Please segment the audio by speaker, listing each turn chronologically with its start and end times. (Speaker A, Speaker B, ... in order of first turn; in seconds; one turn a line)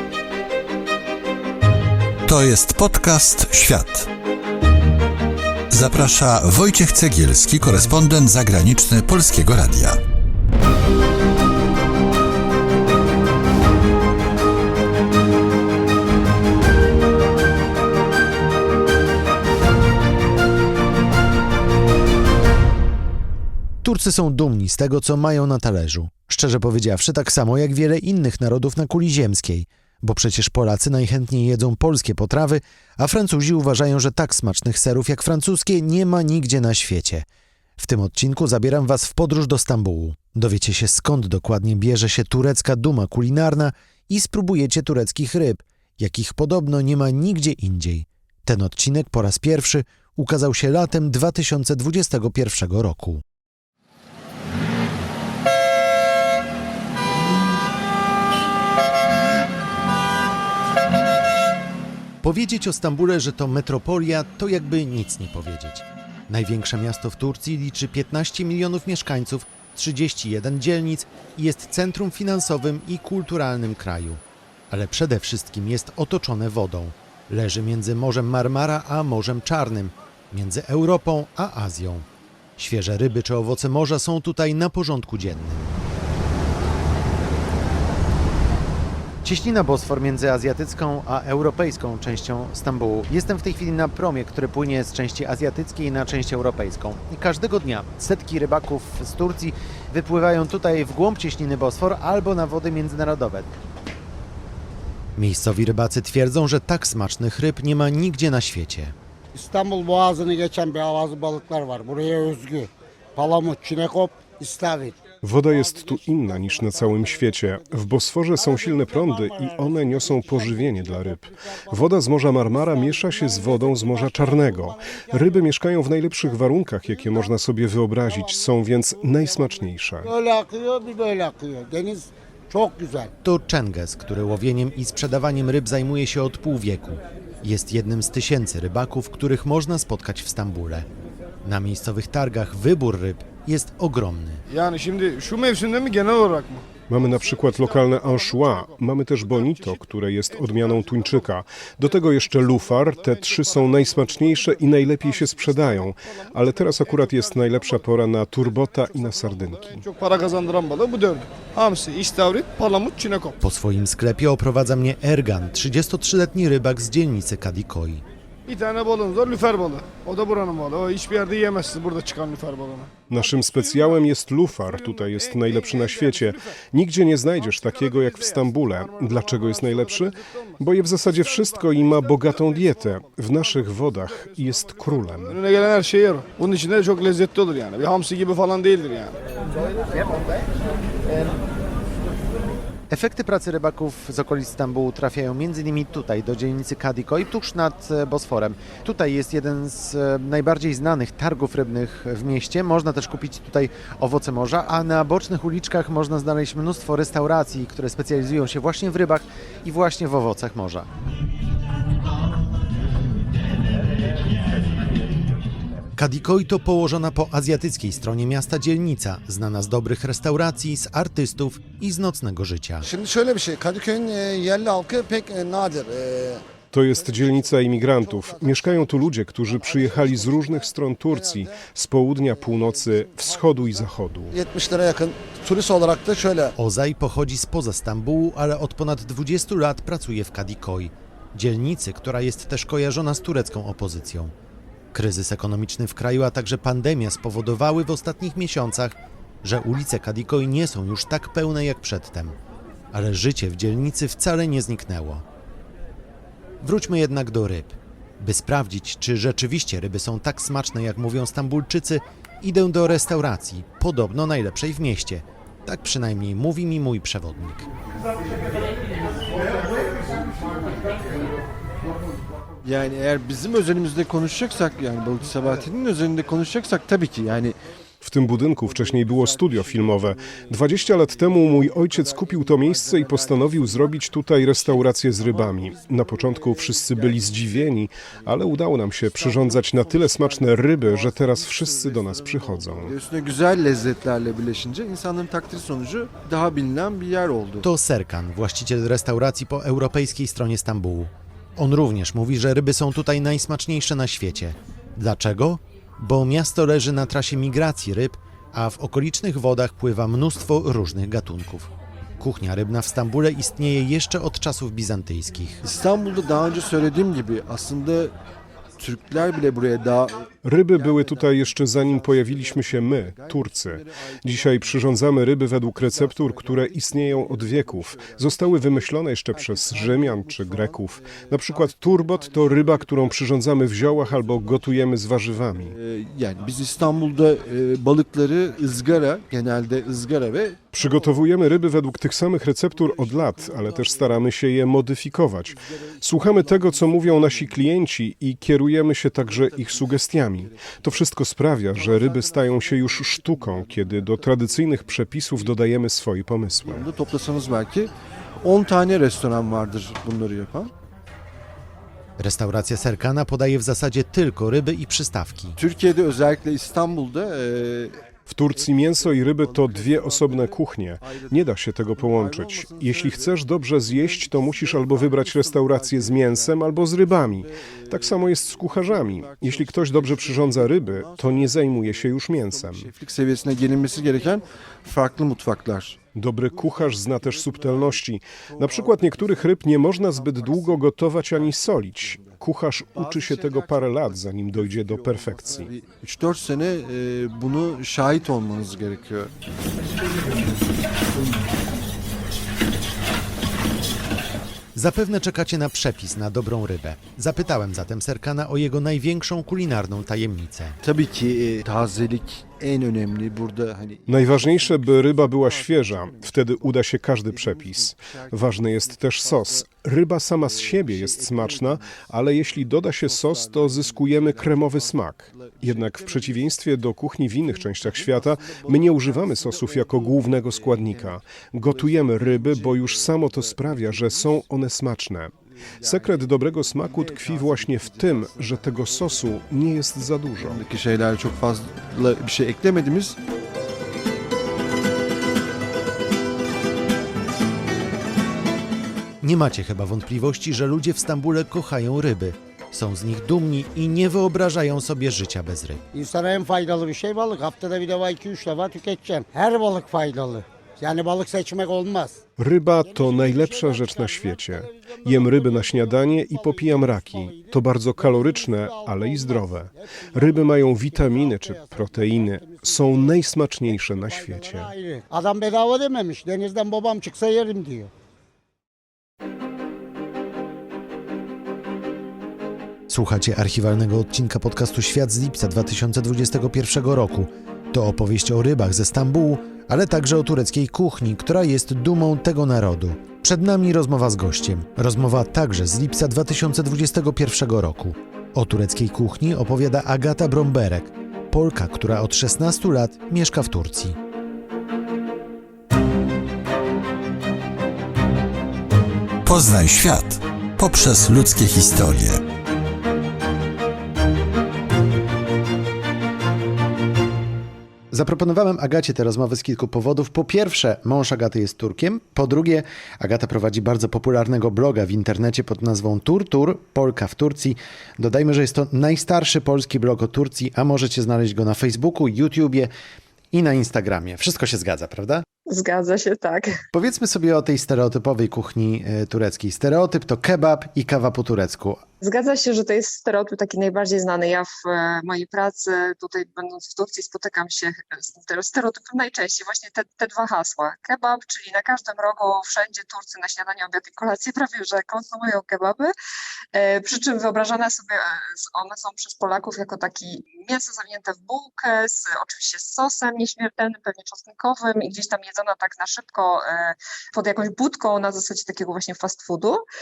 Speaker A: 2.2-4.1
Speaker A: 5.7-10.0
Speaker B: 23.8-37.2
Speaker B: 37.8-53.2
Speaker B: 62.2-82.0
Speaker B: 82.6-85.7
Speaker B: 89.2-103.5
Speaker B: 105.2-108.9
Speaker C: 109.3-115.0
Speaker D: 115.2-130.1
Speaker C: 115.5-117.8
Speaker C: 118.4-121.8
Speaker C: 122.7-125.3
Speaker C: 130.0-133.1
Speaker B: 133.2-140.8
Speaker B: 141.4-144.4
Speaker E: 144.6-148.7
Speaker D: 146.9-159.8
Speaker E: 149.3-149.8
Speaker E: 150.4-151.2
Speaker E: 151.9-157.9
Speaker E: 158.4-163.3
Speaker B: 163.4-168.0
Speaker E: 168.5-174.0
Speaker D: 173.1-185.4
Speaker E: 174.7-176.3
Speaker E: 177.4-189.2
Speaker B: 192.9-210.9
Speaker B: 216.0-222.9
Speaker F: 222.8-226.4
Speaker D: 226.7-234.4
Speaker F: 227.1-231.4
Speaker F: 234.3-236.5
Speaker B: 236.6-244.3
Speaker B: 244.9-252.3
Speaker B: 252.9-255.2
Speaker B: 256.6-267.7
Speaker G: 272.6-277.6
Speaker D: 278.0-292.9
Speaker G: 278.4-297.7
Speaker B: 297.6-315.6
Speaker G: 315.6-318.1
Speaker G: 318.8-334.8
Speaker D: 320.4-335.7
Speaker G: 335.5-341.2
Speaker D: 340.7-356.9
Speaker G: 342.5-344.5
Speaker G: 345.5-347.8
Speaker G: 349.1-355.6
Speaker G: 356.6-360.7
Speaker B: 362.2-365.6
Speaker G: 365.6-399.3
Speaker D: 368.3-382.9
Speaker D: 386.1-395.7
Speaker B: 404.7-410.8
Speaker G: 410.8-419.7
Speaker D: 414.1-440.6
Speaker G: 420.4-434.6
Speaker G: 435.5-439.6
Speaker G: 440.3-443.2
Speaker B: 449.2-455.8
Speaker C: 455.9-462.2
Speaker D: 462.4-474.7
Speaker C: 462.8-477.9
Speaker B: 482.9-503.9
Speaker A: 509.2-512.2
Speaker B: 517.9-532.7
Speaker B: 533.3-535.2
Speaker H: 535.5-536.6
Speaker B: 536.7-541.8
Speaker H: 542.0-555.9
Speaker H: 556.5-569.6